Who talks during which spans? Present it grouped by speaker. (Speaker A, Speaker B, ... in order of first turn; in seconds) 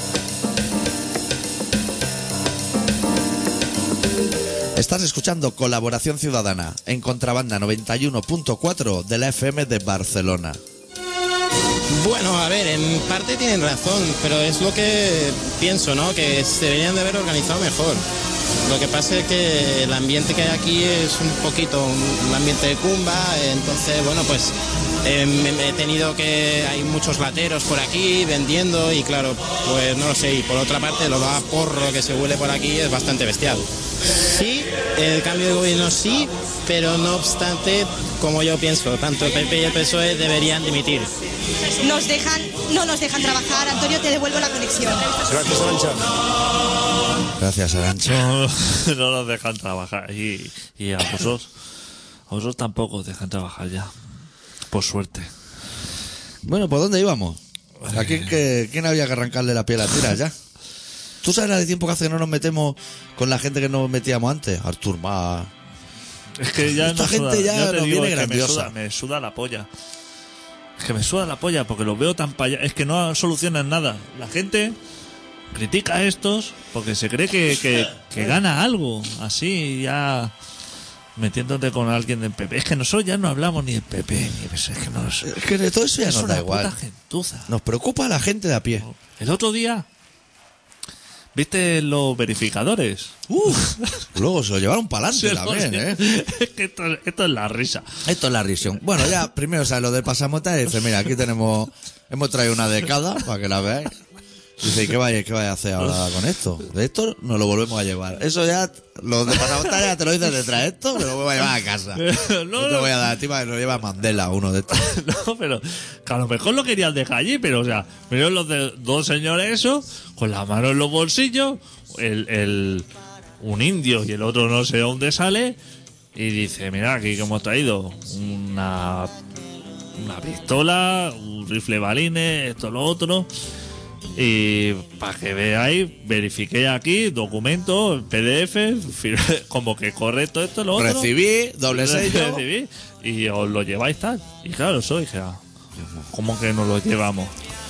Speaker A: 4.8-10.6, 47.4-48.3, 56.4-60.3, 61.2-65.5, 66.6-68.7, 85.2-86.7, 87.5-88.8, 93.3-96.0, 98.0-103.9, 104.6-114.8, 140.7-142.4, 145.8-146.1
Speaker B: 11.9-18.0, 18.6-41.1
Speaker C: 41.8-45.1
Speaker D: 48.0-51.5, 52.3-53.9, 54.7-55.3, 57.8-58.3, 66.4-69.7, 70.8-74.8, 75.5-80.3, 81.2-85.3, 86.0-87.5, 89.0-89.8, 91.3-94.0, 95.1-97.9, 111.9-112.9, 114.7-122.9, 123.4-125.6, 126.1-129.1, 130.0-133.3, 134.2-141.1, 141.7-145.4, 146.1-147.3